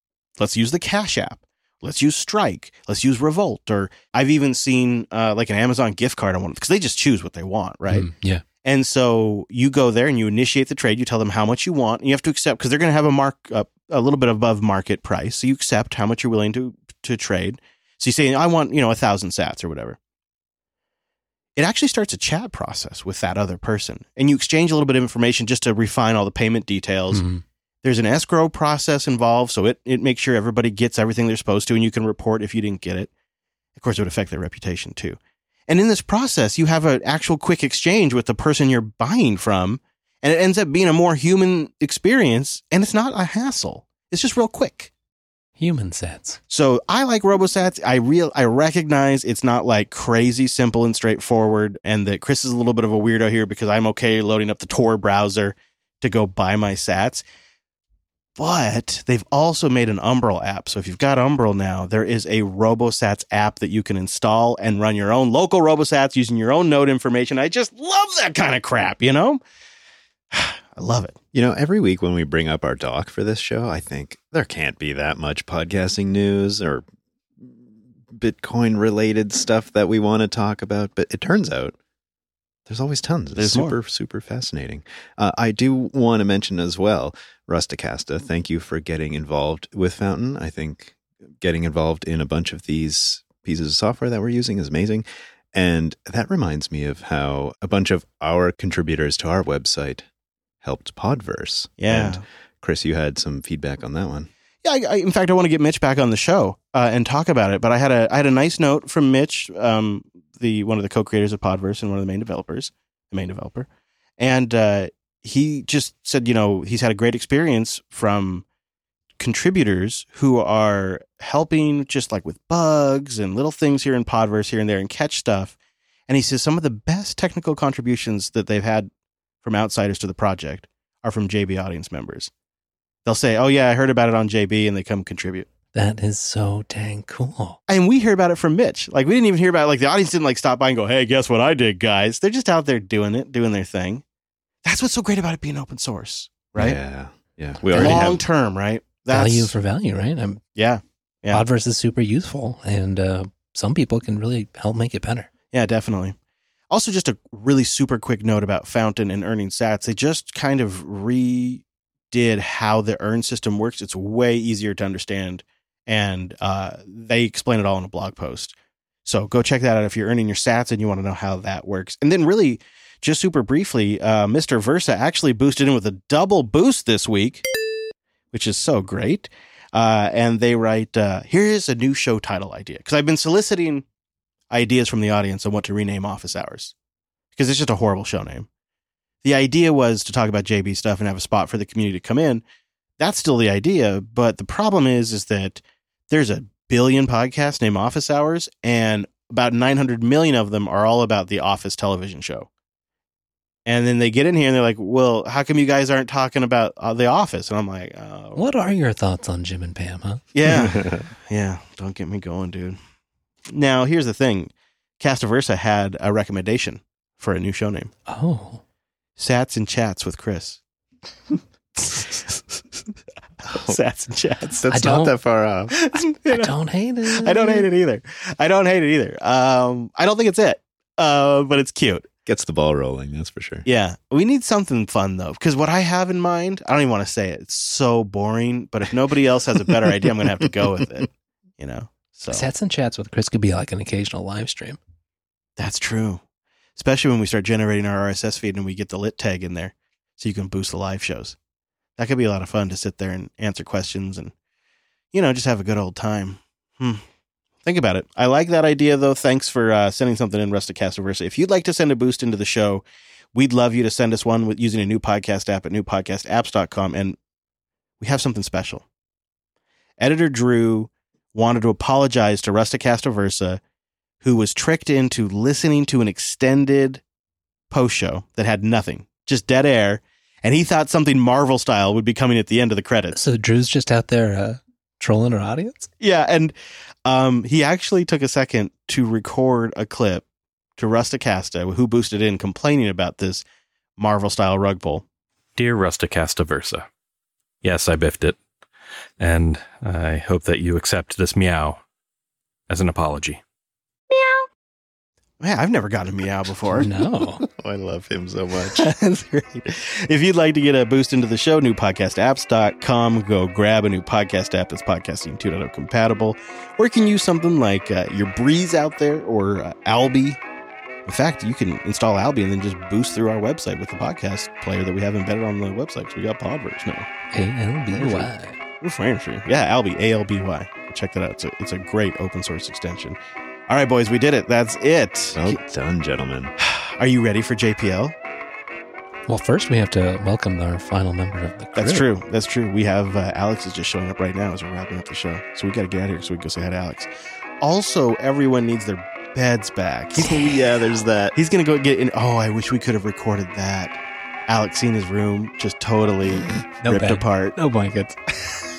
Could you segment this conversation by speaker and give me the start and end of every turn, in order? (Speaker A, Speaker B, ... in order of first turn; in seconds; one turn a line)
Speaker A: 0.4-8.1
Speaker B: 7.9-8.4
Speaker A: 8.6-20.0
Speaker A: 21.6-27.2
Speaker B: 27.1-27.4
Speaker A: 27.8-33.1
Speaker A: 33.8-44.9
Speaker B: 45.6-46.4
Speaker A: 46.5-57.2
Speaker A: 58.4-69.4
Speaker A: 70.3-71.2
Speaker C: 71.3-76.9
Speaker C: 77.4-81.8
Speaker C: 82.7-100.1
Speaker A: 83.4-83.8
Speaker C: 100.6-104.3
Speaker A: 101.8-102.2
Speaker A: 104.6-113.7
Speaker A: 114.2-118.5
Speaker A: 119.2-125.6
Speaker A: 126.1-128.9
Speaker A: 129.4-132.3
Speaker A: 133.1-135.5
Speaker B: 135.7-137.6
Speaker A: 137.7-144.0
Speaker A: 144.6-146.8
Speaker C: 146.6-148.2
Speaker B: 147.7-148.2
Speaker A: 147.7-149.6
Speaker B: 149.1-150.4
Speaker A: 150.6-151.4
Speaker B: 151.3-155.3
Speaker A: 155.5-156.2
Speaker A: 156.7-168.5
Speaker A: 169.1-177.4
Speaker A: 178.3-183.8
Speaker A: 184.5-186.7
Speaker A: 187.4-188.5
Speaker A: 189.2-192.4
Speaker A: 193.0-202.5
Speaker A: 203.7-208.4
Speaker B: 208.4-210.2
Speaker A: 210.3-212.8
Speaker C: 210.5-211.1
Speaker A: 213.5-217.9
Speaker B: 218.1-218.6
Speaker A: 219.2-220.6
Speaker A: 221.8-222.6
Speaker C: 223.5-223.8
Speaker A: 223.5-224.7
Speaker C: 224.5-225.8
Speaker B: 224.7-225.1
Speaker A: 225.7-226.5
Speaker B: 226.0-227.7
Speaker A: 227.1-232.1
Speaker C: 232.3-233.7
Speaker A: 233.7-242.4
Speaker B: 242.3-244.8
Speaker A: 245.6-246.2
Speaker A: 246.8-251.4
Speaker A: 252.0-254.3
Speaker A: 255.1-257.0
Speaker A: 257.6-267.2
Speaker A: 268.0-268.9
Speaker A: 270.0-273.6
Speaker A: 274.2-277.0
Speaker A: 277.7-283.2
Speaker B: 283.1-285.9
Speaker A: 286.0-286.5
Speaker A: 287.1-290.2
Speaker A: 290.8-293.4
Speaker A: 294.0-295.1
Speaker D: 295.6-296.9
Speaker D: 297.6-298.4
Speaker D: 299.2-301.8
Speaker D: 302.7-303.4
Speaker A: 305.4-306.9
Speaker B: 306.7-307.4
Speaker C: 307.4-308.9
Speaker A: 308.7-320.4
Speaker A: 321.1-327.1
Speaker B: 327.3-328.6
Speaker A: 327.9-328.3
Speaker A: 328.8-333.2
Speaker A: 333.7-335.6
Speaker C: 335.3-336.5
Speaker A: 336.6-338.1
Speaker B: 339.3-342.1
Speaker A: 341.8-350.4
Speaker C: 350.1-351.4
Speaker A: 351.3-357.6
Speaker B: 356.8-358.6